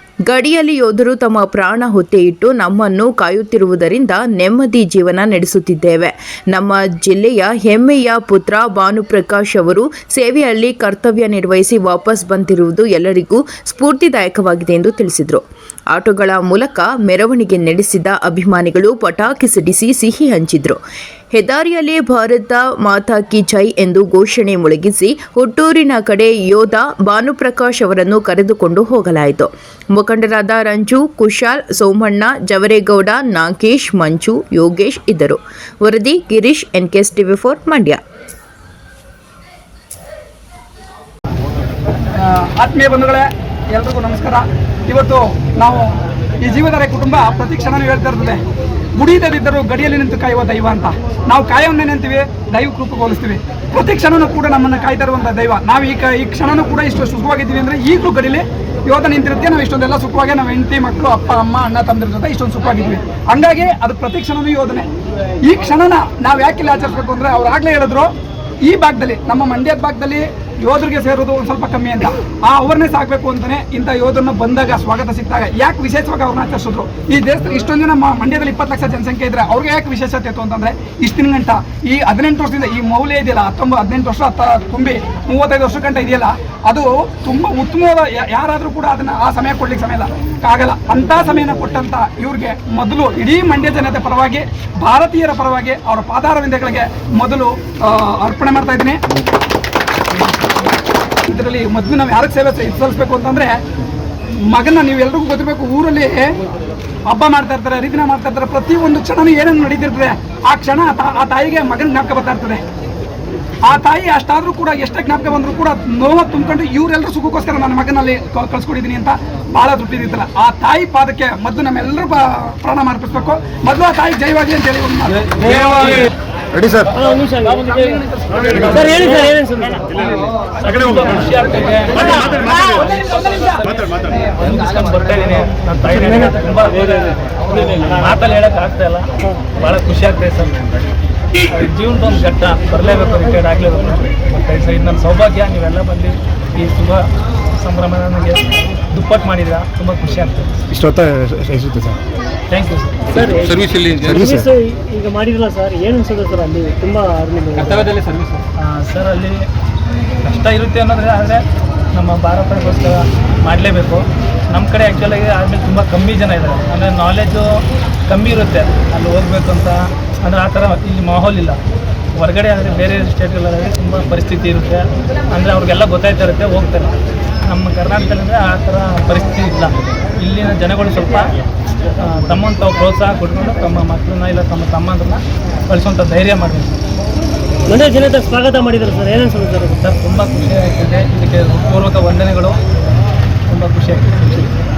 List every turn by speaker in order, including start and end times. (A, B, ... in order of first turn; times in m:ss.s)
0:00.3-0:20.8 A
0:21.3-0:38.0 A
0:42.1-0:48.4 B
0:49.0-1:04.9 B
1:05.4-1:08.1 B
1:08.6-1:39.0 B
1:41.2-1:43.6 B
1:44.4-1:46.4 B
1:47.1-1:52.6 B
1:53.6-2:06.1 B
2:05.7-2:06.0 C
2:06.6-2:06.9 D
2:06.9-2:07.9 E
2:07.7-2:09.3 B
2:08.4-2:09.9 E
2:08.5-2:09.0 C
2:09.9-2:20.7 C
2:12.2-2:13.6 B
2:21.5-2:30.6 C
2:30.7-2:32.0 D
2:32.5-2:33.2 C
2:33.2-2:38.0 E
2:33.6-2:34.4 D
2:38.6-2:39.4 C
2:40.2-2:51.6 C
2:52.2-2:56.9 C
2:57.4-3:01.3 C
3:02.0-3:06.8 C
3:07.6-3:09.8 E
3:09.8-3:12.6 C
3:13.5-3:14.5 C